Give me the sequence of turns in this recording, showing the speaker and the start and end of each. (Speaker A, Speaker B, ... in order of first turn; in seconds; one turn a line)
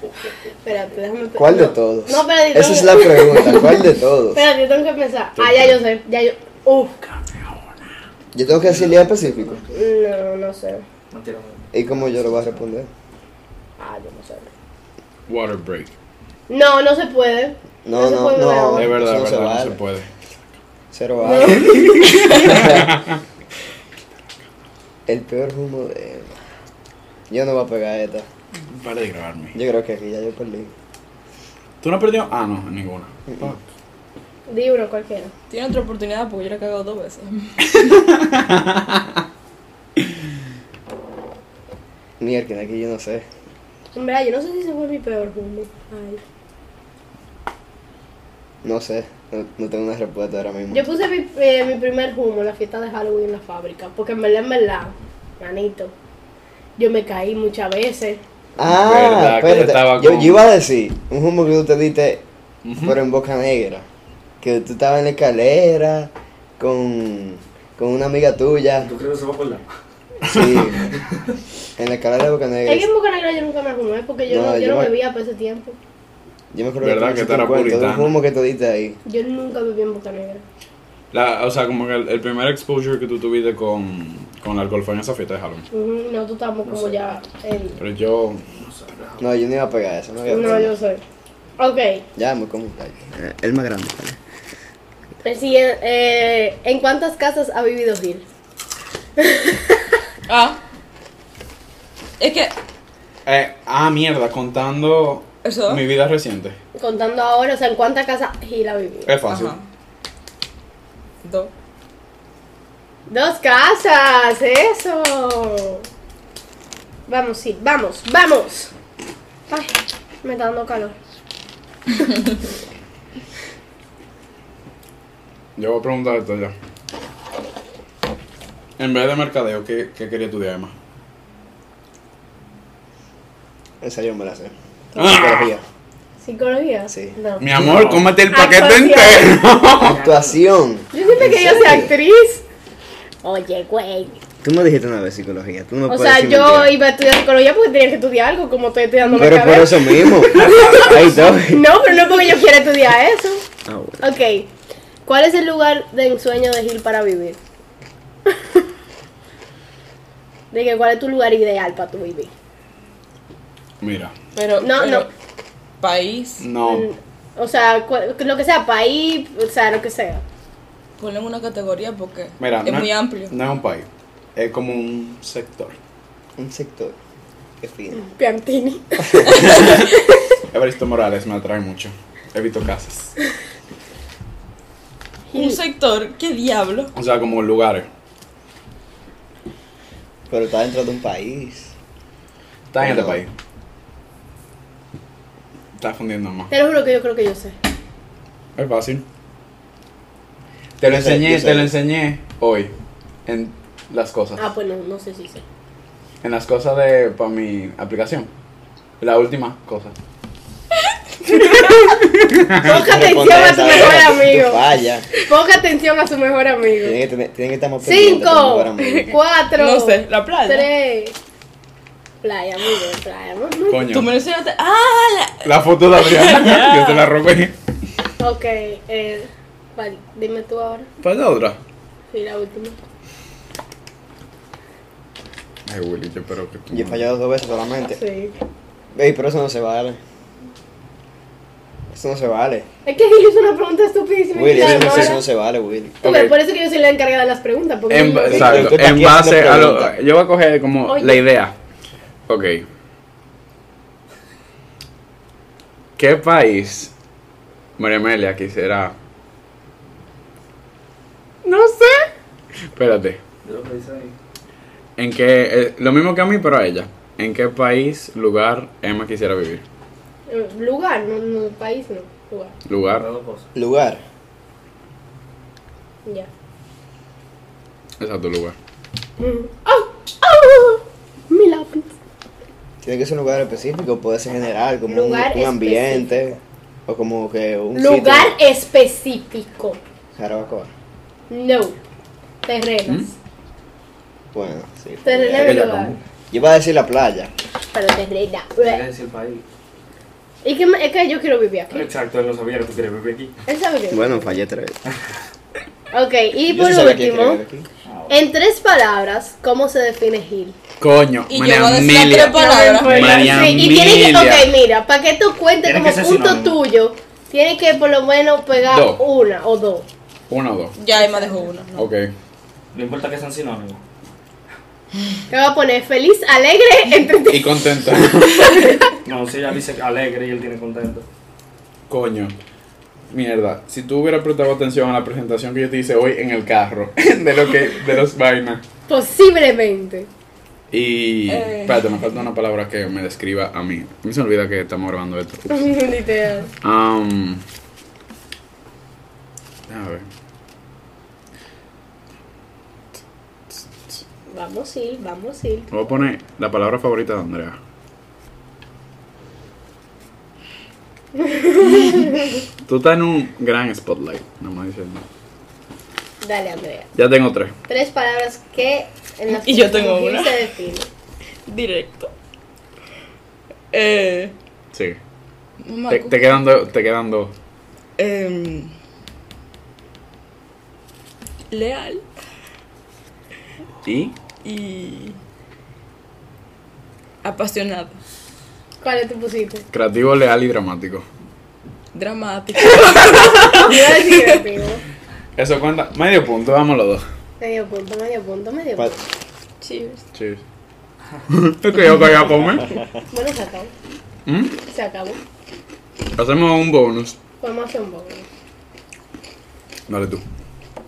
Speaker A: 0.6-3.8
Speaker B: 1.4-4.4
Speaker A: 4.3-7.0
Speaker C: 5.4-5.8
Speaker B: 8.3-9.6
Speaker D: 8.6-9.7
Speaker A: 9.7-10.8
Speaker D: 11.1-12.7
Speaker B: 11.7-12.9
Speaker A: 13.8-14.5
Speaker C: 15.3-15.9
Speaker A: 16.5-18.9
Speaker B: 17.8-19.8
Speaker C: 18.7-20.1
Speaker B: 20.9-22.9
Speaker A: 21.2-22.6
Speaker C: 21.6-23.1
Speaker B: 25.1-26.3
Speaker B: 27.3-28.3
Speaker C: 28.7-29.6
Speaker B: 29.5-30.7
Speaker C: 31.8-33.5
Speaker B: 33.3-33.6
Speaker A: 34.5-35.3
Speaker E: 35.5-37.7
Speaker C: 37.6-39.2
Speaker B: 42.2-43.2
Speaker A: 43.9-46.2
Speaker B: 48.6-50.9
Speaker A: 50.7-55.9
Speaker A: 56.8-58.2
Speaker B: 58.6-62.2
Speaker C: 58.6-60.4
Speaker C: 62.6-63.0
Speaker B: 62.8-63.9
Speaker B: 64.4-68.9
Speaker D: 68.8-69.6
Speaker B: 70.2-70.9
Speaker C: 70.2-70.7
Speaker B: 71.8-72.9
Speaker A: 72.7-75.8
Speaker B: 74.3-75.0
Speaker B: 76.5-79.0
Speaker C: 76.8-78.1
Speaker A: 79.0-80.4
Speaker C: 81.1-85.6
Speaker A: 85.7-87.8
Speaker D: 86.6-87.2
Speaker C: 87.8-88.4
Speaker D: 88.5-89.3
Speaker B: 89.2-90.8
Speaker A: 90.3-91.0
Speaker A: 91.6-92.0
Speaker B: 92.2-94.2
Speaker A: 95.2-98.2
Speaker A: 99.2-99.8
Speaker E: 100.3-100.6
Speaker E: 102.2-102.5
Speaker C: 103.2-106.6
Speaker E: 105.4-105.8
Speaker A: 106.7-109.1
Speaker C: 109.1-109.5
Speaker E: 109.3-109.6
Speaker E: 111.2-111.5
Speaker A: 113.1-115.8
Speaker A: 117.1-118.7
Speaker A: 119.5-121.0
Speaker C: 125.5-126.5
Speaker C: 128.8-130.7
Speaker B: 133.8-135.6
Speaker C: 134.9-135.5
Speaker A: 136.2-137.5
Speaker B: 136.9-137.2
Speaker C: 137.4-140.0
Speaker D: 137.6-138.1
Speaker A: 138.3-139.4
Speaker D: 139.7-140.4
Speaker B: 140.0-141.9
Speaker A: 140.9-142.4
Speaker A: 143.2-144.2
Speaker B: 144.4-146.8
Speaker A: 145.9-153.4
Speaker B: 149.1-151.7
Speaker B: 153.6-154.1
Speaker A: 154.0-154.5
Speaker A: 155.1-157.4
Speaker A: 158.3-158.6
Speaker A: 160.5-162.3
Speaker C: 163.8-164.2
Speaker E: 164.3-165.1
Speaker A: 164.6-165.1
Speaker E: 165.8-166.4
Speaker C: 166.4-166.9
Speaker A: 166.6-170.2
Speaker E: 171.0-173.3
Speaker C: 172.4-175.8
Speaker B: 176.4-176.9
Speaker B: 177.6-178.1
Speaker A: 177.9-180.2
Speaker C: 179.3-180.0
Speaker C: 180.5-183.1
Speaker A: 185.3-185.6
Speaker E: 185.3-186.9
Speaker C: 186.9-187.9
Speaker B: 190.3-191.7
Speaker C: 192.7-193.3
Speaker B: 192.8-193.2
Speaker C: 195.8-196.5
Speaker A: 196.5-197.5
Speaker C: 198.6-199.0
Speaker C: 200.8-202.7
Speaker B: 200.8-201.7
Speaker C: 203.2-204.4
Speaker A: 204.4-205.4
Speaker C: 206.2-208.3
Speaker C: 209.0-209.9
Speaker E: 210.9-211.4
Speaker A: 211.4-211.9
Speaker C: 212.1-212.7
Speaker A: 212.6-217.0
Speaker B: 212.6-215.1
Speaker B: 216.8-219.1
Speaker A: 217.8-221.1
Speaker E: 219.5-220.7
Speaker A: 222.2-223.8
Speaker C: 223.7-224.1
Speaker E: 223.9-227.1
Speaker C: 225.4-227.5
Speaker A: 228.2-230.9
Speaker C: 231.0-231.6
Speaker A: 232.1-232.8
Speaker C: 235.7-237.1
Speaker B: 236.7-238.0
Speaker A: 237.9-238.3
Speaker B: 238.9-240.0
Speaker B: 241.9-242.7
Speaker A: 242.8-245.2
Speaker B: 244.3-246.0
Speaker C: 244.6-245.1
Speaker C: 246.0-246.4
Speaker A: 246.0-248.7
Speaker C: 247.9-251.5
Speaker B: 248.3-250.0
Speaker A: 250.9-251.2
Speaker C: 252.3-252.6
Speaker C: 256.0-256.9
Speaker C: 257.8-258.9
Speaker C: 261.4-261.9
Speaker C: 262.7-263.2
Speaker D: 263.4-264.1
Speaker C: 265.0-269.6
Speaker A: 270.3-272.5
Speaker C: 272.6-273.1
Speaker D: 272.9-273.4
Speaker B: 273.5-274.0
Speaker C: 278.0-278.6
Speaker A: 279.2-281.9
Speaker B: 282.8-288.3
Speaker A: 284.9-286.2
Speaker A: 287.7-289.8
Speaker B: 290.1-290.7
Speaker A: 291.3-291.8
Speaker A: 292.4-293.1
Speaker B: 294.3-295.7
Speaker A: 295.0-296.0
Speaker C: 295.3-296.0
Speaker B: 296.3-297.3
Speaker A: 297.7-298.8
Speaker D: 298.6-299.4
Speaker A: 300.4-301.9
Speaker D: 301.7-303.3
Speaker A: 303.5-304.4
Speaker B: 303.9-304.8
Speaker A: 305.9-307.4
Speaker B: 306.5-307.7
Speaker D: 307.9-308.2
Speaker A: 308.1-310.6
Speaker C: 310.8-314.5
Speaker E: 311.3-313.5
Speaker A: 312.3-319.9
Speaker D: 315.6-316.6
Speaker C: 318.7-319.0
Speaker C: 320.3-320.8
Speaker E: 320.8-321.9
Speaker C: 321.7-322.1
Speaker D: 322.7-323.8
Speaker A: 325.3-327.6
Speaker C: 327.3-328.8
Speaker A: 328.4-328.9
Speaker D: 329.0-331.1
Speaker C: 331.9-332.3
Speaker C: 333.1-338.6
Speaker A: 338.9-340.1
Speaker C: 340.7-345.7
Speaker E: 341.3-341.8
Speaker A: 345.5-346.5
Speaker C: 346.6-347.4
Speaker C: 349.7-350.1
Speaker C: 353.5-354.0
Speaker A: 354.3-355.7
Speaker C: 355.7-357.6
Speaker A: 361.2-362.3
Speaker C: 362.6-365.0
Speaker A: 366.2-366.9
Speaker C: 366.9-367.5
Speaker A: 367.7-370.9
Speaker E: 369.3-370.5
Speaker E: 371.4-372.1
Speaker E: 373.7-374.3
Speaker C: 374.7-375.0
Speaker E: 375.6-376.4
Speaker C: 375.9-377.3
Speaker E: 378.0-378.7
Speaker E: 381.5-382.1
Speaker C: 383.8-384.1
Speaker E: 384.4-385.1
Speaker E: 387.2-388.0
Speaker A: 388.8-389.6
Speaker C: 389.7-391.0
Speaker E: 391.9-394.4
Speaker C: 393.2-393.5
Speaker A: 393.6-394.8
Speaker C: 395.4-397.0
Speaker A: 397.4-399.0
Speaker E: 399.6-400.0
Speaker C: 400.1-400.4
Speaker C: 401.3-402.8
Speaker A: 403.1-403.7
Speaker C: 404.2-404.6
Speaker A: 404.7-405.2
Speaker C: 406.1-407.2
Speaker A: 407.4-408.2
Speaker C: 409.9-410.2